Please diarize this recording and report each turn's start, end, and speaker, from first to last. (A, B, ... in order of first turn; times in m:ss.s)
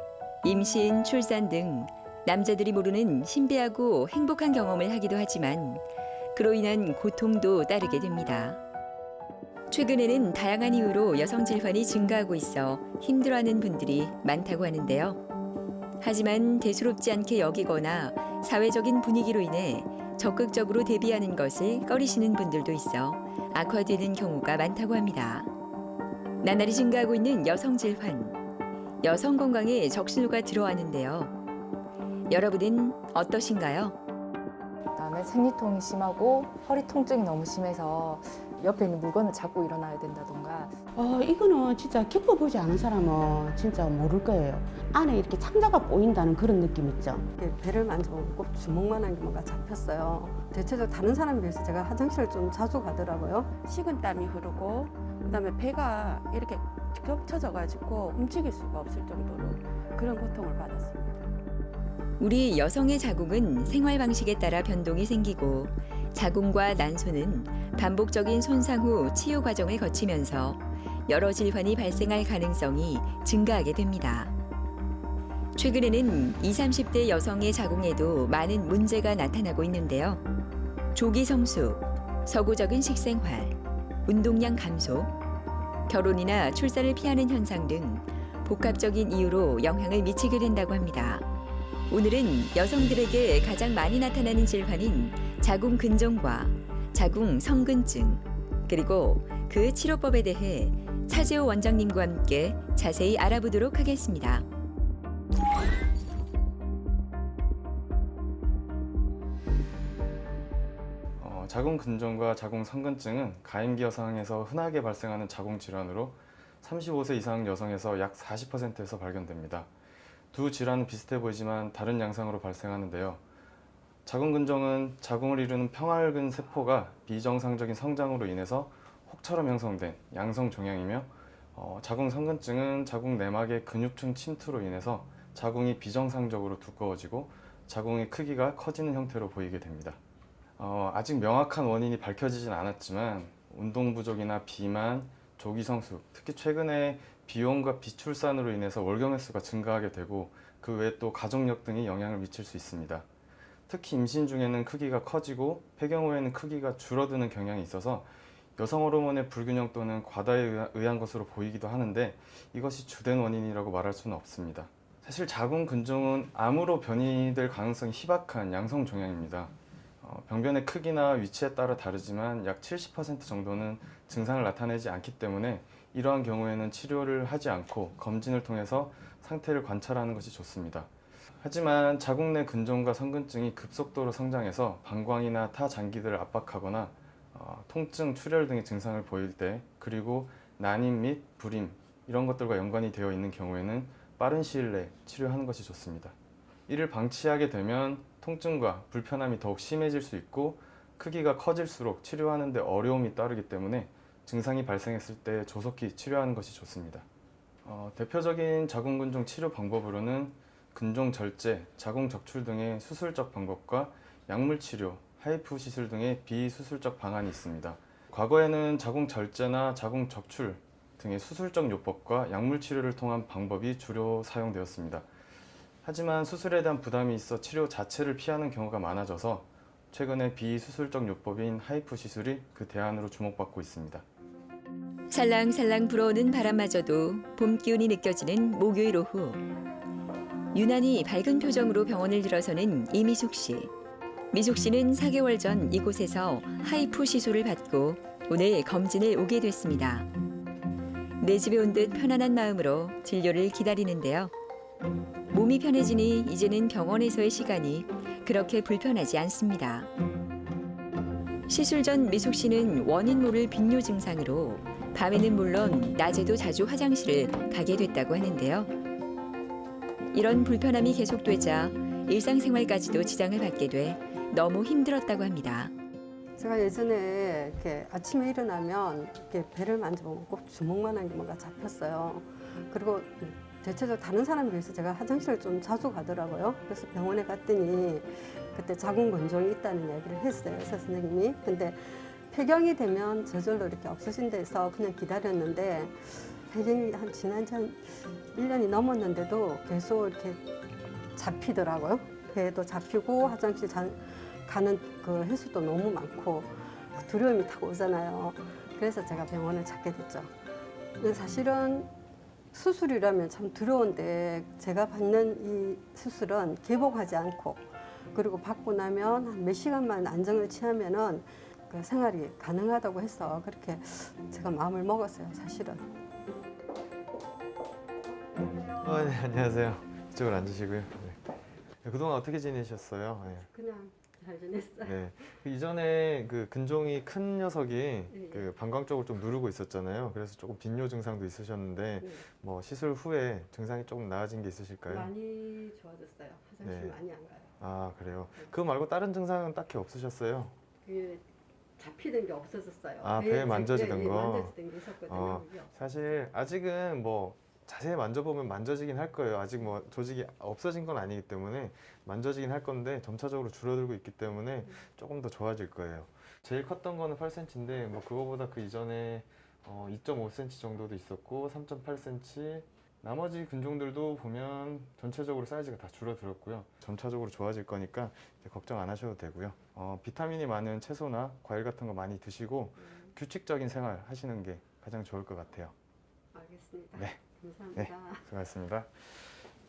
0:00.4-0:08.6 A
0:09.7-0:15.2 A
0:16.0-0:25.5 A
0:26.4-0:28.4 A
0:29.0-0:31.3 A
0:32.3-0:34.0 A
0:35.0-0:40.8 B
0:40.9-0:47.3 C
0:47.4-0:53.5 D
0:53.6-1:01.3 E
1:02.2-1:14.3 A
1:15.6-1:20.2 A
1:20.9-1:25.1 A
1:25.9-1:31.2 A
1:31.9-1:44.4 A
1:51.2-1:59.7 F
2:00.3-2:03.2 F
2:04.0-2:20.0 F
2:20.6-2:33.1 F
2:33.7-3:00.9 F
3:01.4-3:16.2 F
3:16.7-3:27.0 F
3:27.6-3:45.1 F
3:45.8-3:54.0 F
3:55.1-3:59.4 A
4:00.5-4:03.7 A
4:04.3-4:10.1 A
4:11.2-4:14.3 A
4:15.3-4:19.9 A
4:21.5-4:28.7 A
4:30.1-4:35.7 A
4:36.4-5:00.4 D
5:01.2-5:10.3 D
5:11.0-5:11.9 D
5:12.5-5:25.9 D
5:28.6-5:28.9 D
5:28.8-5:33.5 F
5:33.4-5:35.3 D
5:34.8-5:45.1 F
5:38.1-5:38.5 D
5:44.9-5:47.5 D
5:46.6-5:47.0 F
5:47.6-5:50.6 F
5:50.8-5:51.2 D
5:51.8-5:55.7 D
5:53.0-5:54.5 F
5:55.1-6:25.7 F
6:26.3-6:28.2 D
6:27.7-6:29.2 F